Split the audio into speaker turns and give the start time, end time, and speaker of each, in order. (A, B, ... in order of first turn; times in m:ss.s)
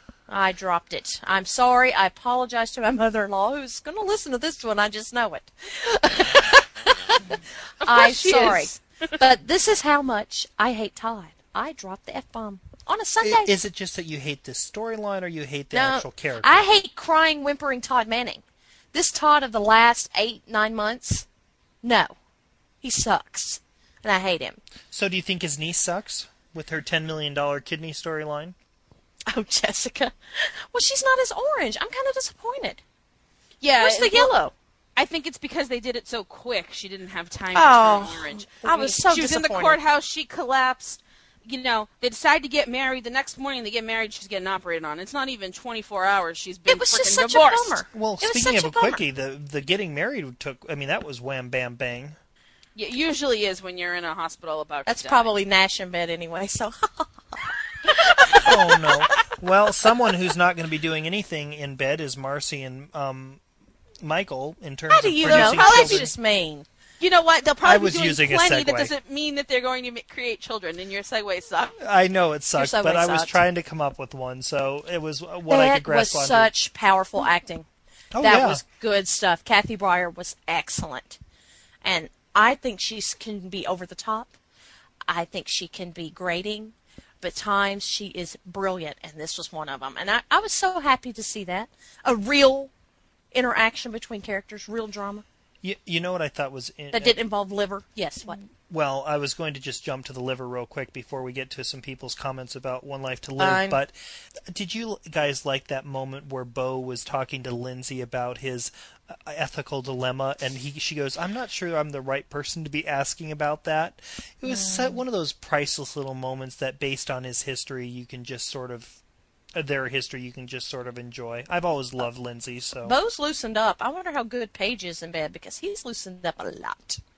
0:00.3-0:13.5 A
0:07.8-0:08.8 B
0:13.2-0:16.6 C
0:15.7-0:21.3 A
0:21.8-0:22.1 A
0:22.8-0:24.6 A
0:24.9-0:28.6 C
0:29.3-0:32.8 A
0:33.6-0:34.4 B
0:33.8-0:34.5 A
0:35.0-0:47.8 B
0:37.5-0:39.8 A
0:46.7-0:49.0 A
0:47.9-0:52.2 C
0:52.8-0:55.3 B
0:54.9-0:58.9 A
0:58.0-0:59.0 B
0:58.4-1:03.4 C
1:04.0-1:06.1 C
1:04.9-1:06.7 A
1:05.2-1:06.1 B
1:07.0-1:11.8 B
1:07.6-1:08.9 C
1:11.8-1:16.5 C
1:12.6-1:13.3 A
1:15.5-1:17.7 A
1:18.1-1:18.6 C
1:18.2-1:21.2 A
1:21.8-1:24.3 A
1:25.1-1:32.7 A
1:33.3-1:35.2 A
1:35.6-1:37.2 C
1:36.9-1:38.4 A
1:38.7-1:43.9 C
1:43.4-1:43.8 A
1:44.5-1:59.0 C
1:54.5-1:55.0 A
1:59.6-2:03.0 C
2:02.8-2:07.0 A